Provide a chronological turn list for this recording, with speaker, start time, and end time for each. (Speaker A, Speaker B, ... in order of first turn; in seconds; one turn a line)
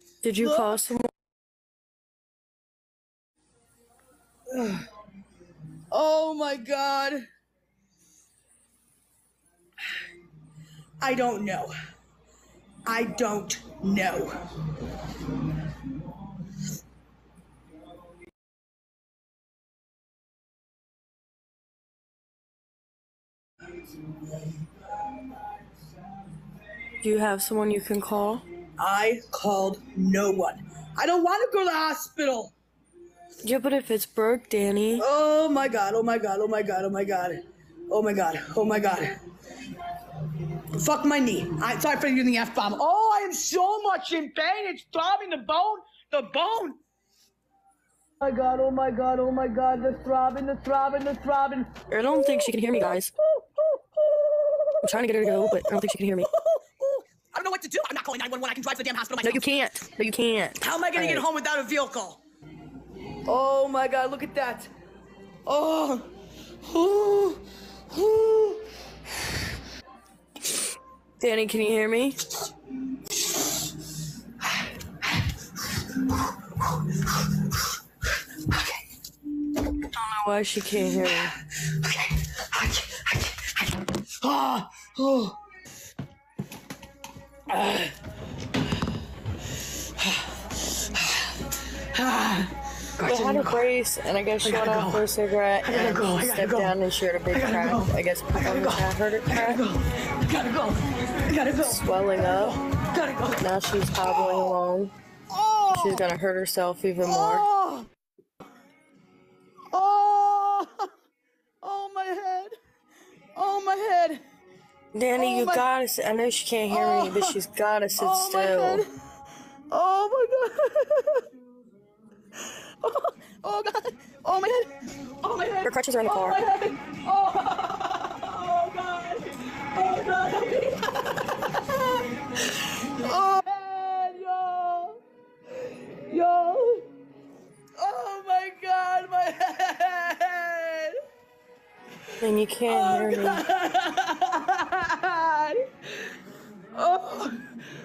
Speaker A: 0.2-1.1
Speaker B: 0.4-0.8
Speaker B: 4.5-4.9
Speaker B: 5.9-7.3
Speaker B: 11.0-11.7
Speaker B: 12.8-14.3
Speaker A: 27.0-28.4
Speaker B: 28.8-32.5
Speaker A: 33.4-35.1
Speaker B: 35.0-39.2
Speaker B: 40.7-46.8
Speaker B: 48.2-52.5
Speaker A: 51.9-53.1
Speaker B: 53.2-55.7
Speaker A: 54.8-56.3
Speaker B: 56.2-59.4
Speaker A: 59.2-61.3
Speaker B: 60.6-62.2
Speaker B: 63.3-64.7
Speaker B: 65.5-66.1
Speaker B: 66.6-68.6
Speaker A: 71.2-72.2
Speaker A: 79.8-81.3
Speaker B: 82.5-83.0
Speaker B: 84.2-85.3
Speaker B: 87.5-87.9
Speaker B: 91.0-91.2
Speaker B: 91.9-93.7
Speaker A: 93.0-99.6
Speaker B: 94.4-95.1
Speaker B: 95.6-96.8
Speaker B: 97.3-104.6
Speaker A: 101.6-102.6
Speaker A: 103.4-104.9
Speaker B: 105.3-106.0
Speaker A: 105.7-107.5
Speaker B: 107.0-107.9
Speaker B: 109.7-110.9
Speaker B: 111.6-112.5
Speaker B: 113.3-114.2
Speaker A: 114.9-118.9
Speaker B: 115.2-115.7
Speaker B: 116.7-117.4
Speaker B: 118.0-118.9
Speaker B: 119.7-121.3
Speaker B: 122.8-135.0
Speaker A: 125.6-126.4
Speaker B: 135.6-136.9
Speaker B: 137.8-141.0
Speaker A: 142.2-143.4
Speaker B: 142.7-145.7
Speaker B: 146.8-147.6